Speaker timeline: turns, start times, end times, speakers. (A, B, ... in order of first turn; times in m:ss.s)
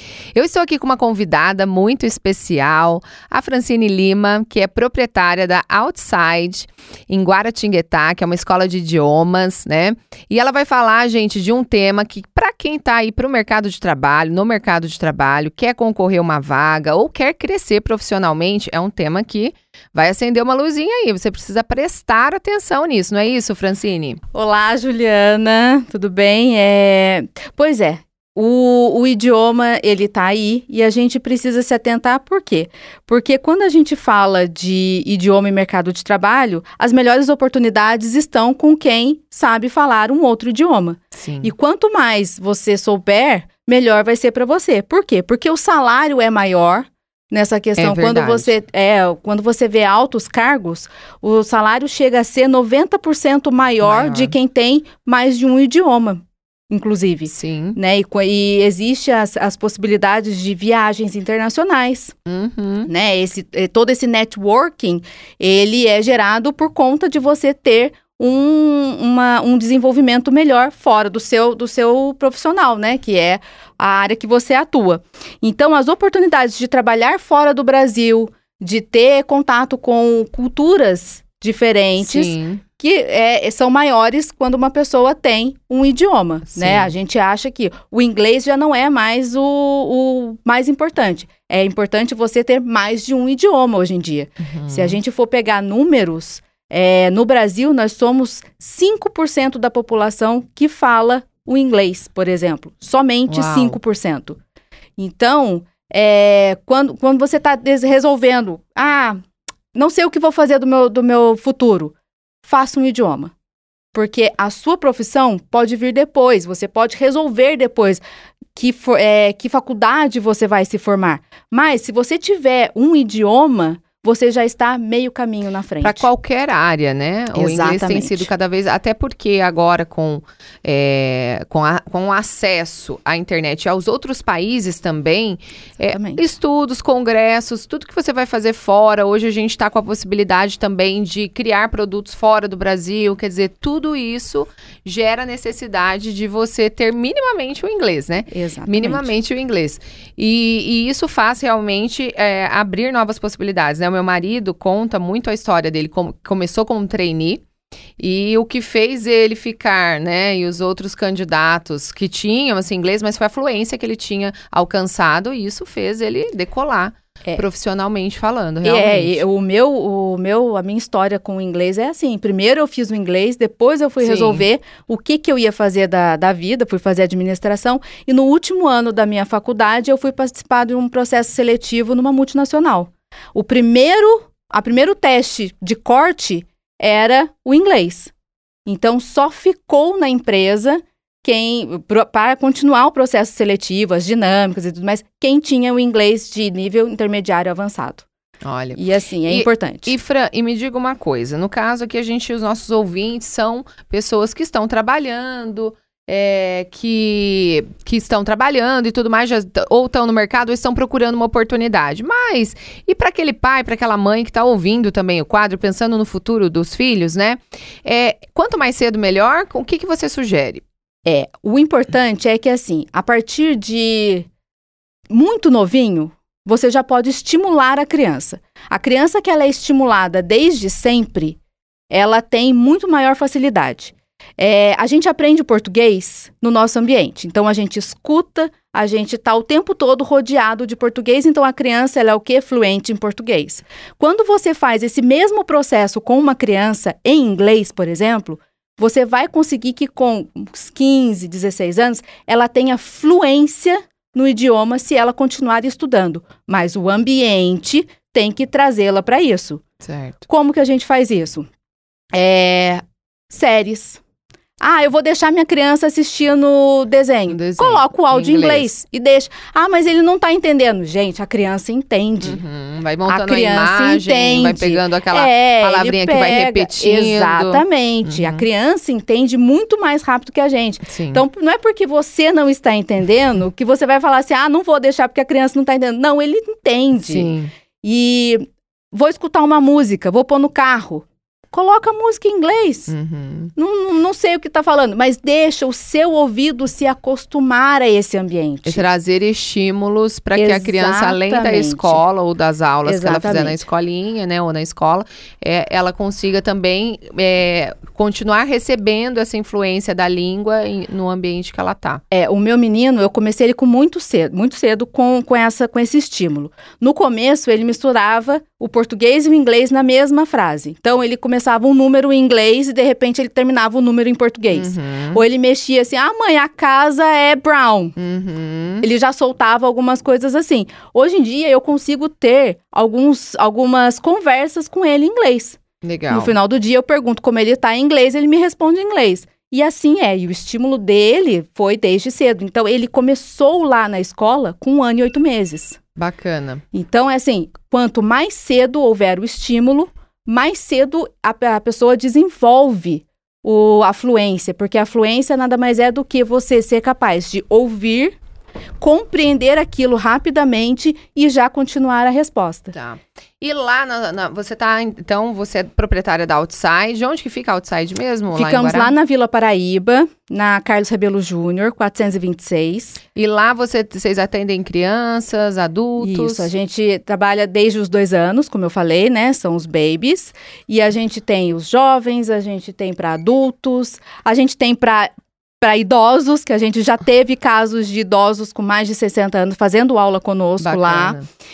0:00.3-0:24.2 A
0:24.3-1:02.1 B
0:41.2-0:41.5 A
0:47.8-0:48.5 A
0:53.8-0:54.3 A
0:57.3-0:57.8 A
1:02.2-1:02.9 A
1:02.8-1:44.4 B
1:22.0-1:22.6 A
1:26.5-1:26.9 A
1:34.4-1:35.0 A
1:43.3-1:43.8 A
1:45.0-1:49.2 B
1:49.7-1:51.9 B
1:52.4-1:53.3 B
1:53.9-1:58.0 B
1:58.6-2:06.1 B
2:05.8-2:37.4 A
2:07.3-2:08.3 B
2:15.9-2:16.2 B
2:28.3-2:29.1 B
2:38.0-2:49.2 A
2:48.6-3:08.1 B
2:54.0-2:54.4 A
3:08.6-3:18.0 B
3:18.4-3:40.6 A
3:18.7-3:19.9 B
3:41.0-3:44.3 B
3:45.1-3:51.4 B
3:51.9-4:19.6 B
4:19.8-4:20.2 A
4:20.3-4:21.5 B
4:22.1-4:24.0 B
4:24.6-4:32.4 B
4:27.3-4:28.7 A
4:32.2-4:38.4 A
4:33.1-4:52.9 B
4:40.9-4:41.2 A
4:47.0-4:47.5 A
4:52.9-4:53.5 A
4:53.6-4:58.8 B
4:58.6-5:12.0 A
5:00.4-5:02.0 B
5:02.8-5:03.6 B
5:12.1-5:27.9 B
5:24.5-5:25.2 A
5:28.0-5:28.9 A
5:28.8-5:35.6 B
5:35.8-5:36.3 A
5:36.1-5:45.8 B
5:46.0-5:46.6 A
5:46.7-5:58.2 B
5:58.8-6:02.7 B
6:02.7-6:08.9 A
6:08.3-6:13.0 B
6:13.1-6:16.5 A
6:16.0-6:31.2 B
6:30.6-6:31.2 A